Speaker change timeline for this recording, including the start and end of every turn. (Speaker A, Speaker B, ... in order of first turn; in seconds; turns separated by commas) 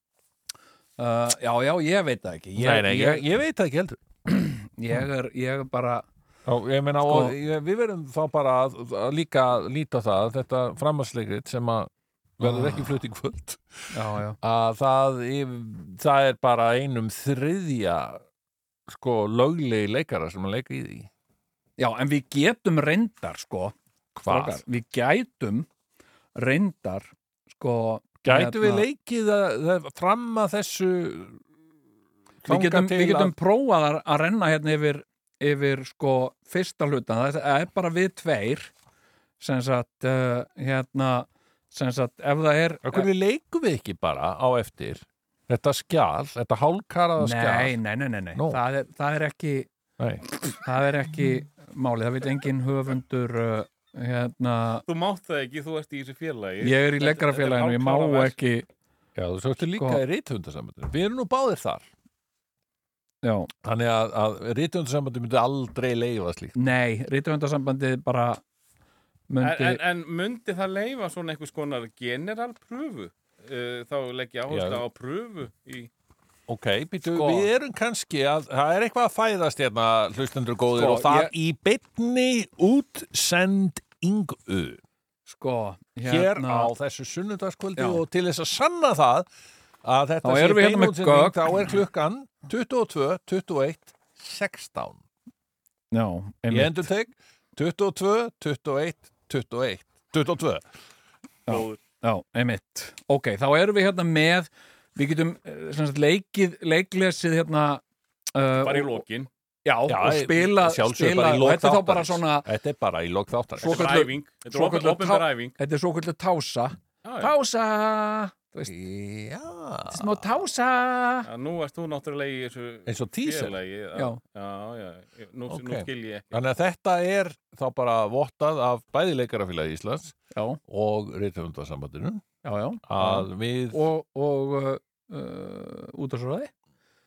Speaker A: 1.0-3.2, Speaker B: 2.5-4.0, Speaker A: 4.2-6.0, Speaker B: 6.5-18.2, Speaker A: 7.0-7.3, Speaker A: 12.4-12.9, Speaker A: 13.9-14.4, Speaker B: 18.9-21.1, Speaker A: 21.8-25.7, Speaker B: 24.1-24.6, Speaker A: 26.3-28.9, Speaker B: 28.2-31.4, Speaker B: 32.4-33.3, Speaker A: 32.5-38.7, Speaker A: 39.4-43.1, Speaker B: 42.8-47.8, Speaker A: 47.2-49.7, Speaker B: 48.3-48.6, Speaker B: 50.0-50.3, Speaker A: 50.5-54.8, Speaker C: 54.9-58.4, Speaker A: 56.6-58.7, Speaker B: 59.1-61.9, Speaker A: 59.8-60.0, Speaker A: 63.2-63.5, Speaker B: 63.6-66.5, Speaker A: 66.5-68.4, Speaker A: 69.3-69.8, Speaker C: 69.4-75.9, Speaker B: 74.5-74.8, Speaker B: 76.5-84.8, Speaker A: 77.0-77.5, Speaker A: 80.7-81.3, Speaker A: 85.2-86.7, Speaker B: 86.0-89.3, Speaker A: 87.8-88.0, Speaker B: 89.8-95.0, Speaker A: 90.2-91.4, Speaker A: 95.9-96.9, Speaker B: 96.5-100.6, Speaker C: 101.5-101.8, Speaker A: 101.5-109.0, Speaker C: 108.6-109.3, Speaker A: 109.6-112.5, Speaker B: 109.9-114.0, Speaker C: 113.6-115.5, Speaker A: 113.6-118.7, Speaker C: 117.0-117.3, Speaker B: 118.7-120.2, Speaker A: 119.9-121.3, Speaker C: 121.2-126.4, Speaker B: 122.8-123.6, Speaker B: 125.5-130.1, Speaker A: 130.3-130.6, Speaker B: 130.7-132.2, Speaker A: 132.4-136.5, Speaker B: 132.9-133.8